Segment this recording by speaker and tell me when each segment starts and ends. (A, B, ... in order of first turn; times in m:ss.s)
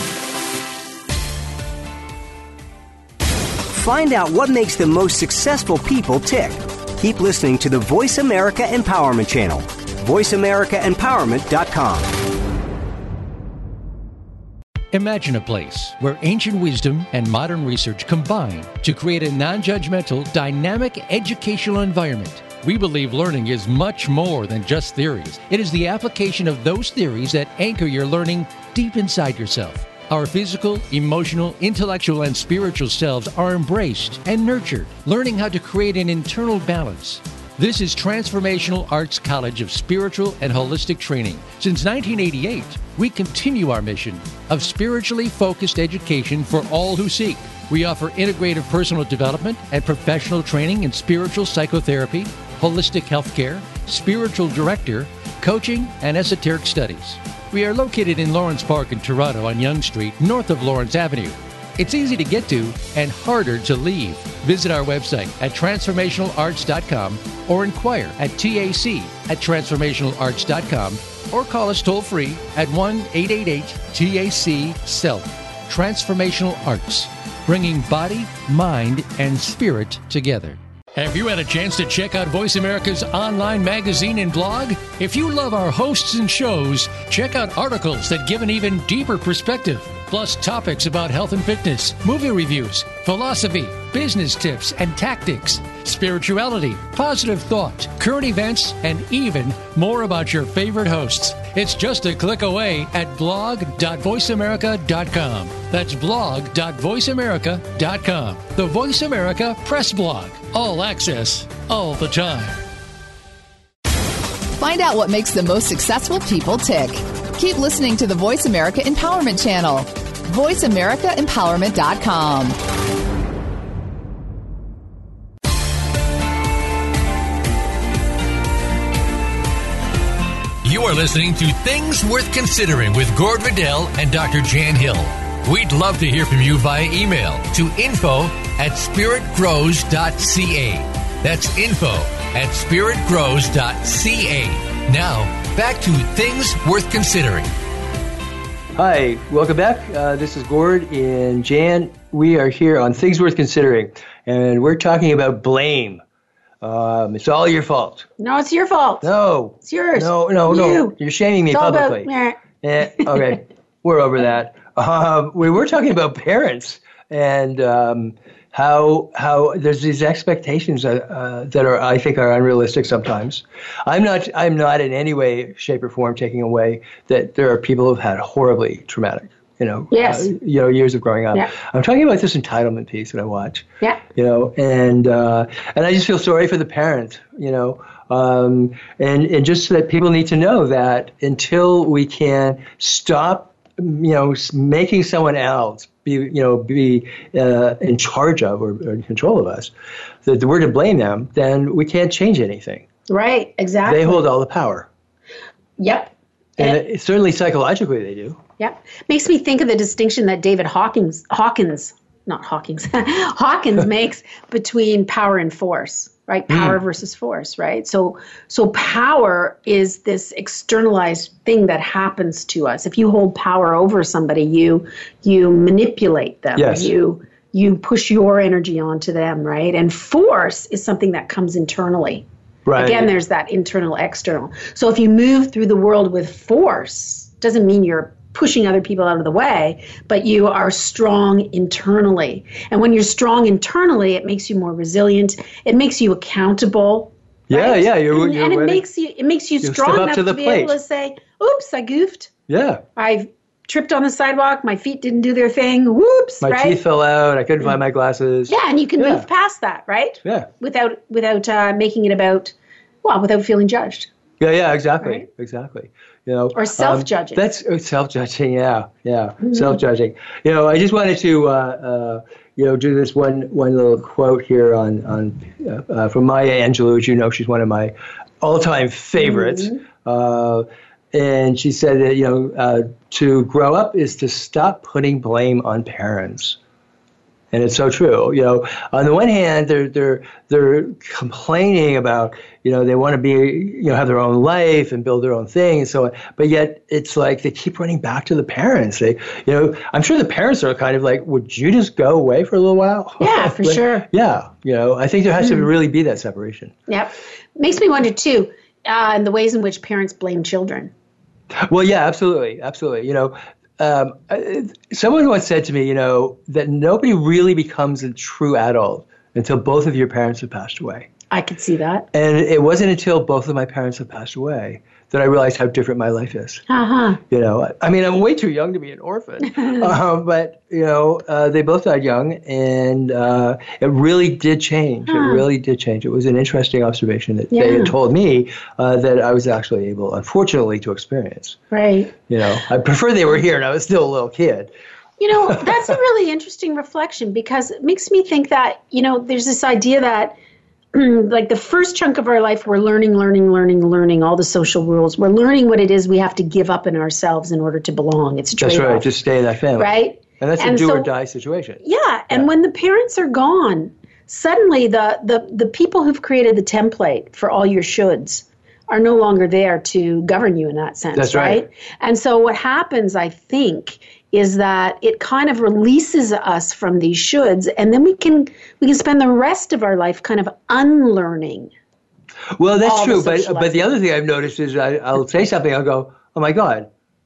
0:03.7-0:12.2 A
0:14.9-1:52.6 B
1:54.6-2:02.6 C
2:10.6-2:27.5 B
2:28.8-2:36.0 D
2:36.6-2:38.1 D
2:38.2-2:39.1 E
2:39.0-3:19.7 D
2:39.6-2:41.0 E
2:41.5-2:42.4 E
2:59.9-3:00.3 E
3:20.2-3:22.8 D
3:23.1-3:24.2 E
3:23.8-3:24.9 D
3:25.8-3:26.8 E
3:26.6-3:28.4 D
3:28.6-3:52.2 E
3:36.5-3:36.8 D
3:46.6-3:46.9 D
3:52.6-3:53.1 D
3:52.8-4:12.3 E
4:07.5-4:08.8 D
4:09.6-4:10.7 D
4:12.5-4:12.8 D
4:13.0-4:16.8 E
4:16.4-4:19.2 D
4:18.5-4:24.1 E
4:20.2-4:20.5 D
4:24.4-4:46.6 D
4:26.5-4:27.4 E
4:29.4-4:29.7 E
4:39.2-4:39.8 E
4:47.5-5:06.7 D
5:03.2-5:04.1 E
5:05.4-5:05.7 E
5:06.9-5:10.9 E
5:11.6-5:21.1 D
5:21.3-5:22.1 E
5:22.1-5:26.6 D
5:26.7-5:27.2 E
5:27.3-5:41.6 D
5:35.1-5:35.4 E
5:37.5-5:37.9 E
5:41.7-5:42.1 E
5:42.3-5:44.7 D
5:45.2-5:50.4 E
5:50.9-5:59.1 E
5:58.6-6:01.8 D
5:59.8-6:01.1 E
6:01.8-6:21.7 E
6:11.1-6:11.6 D
6:22.6-6:26.9 D
6:22.8-6:23.9 E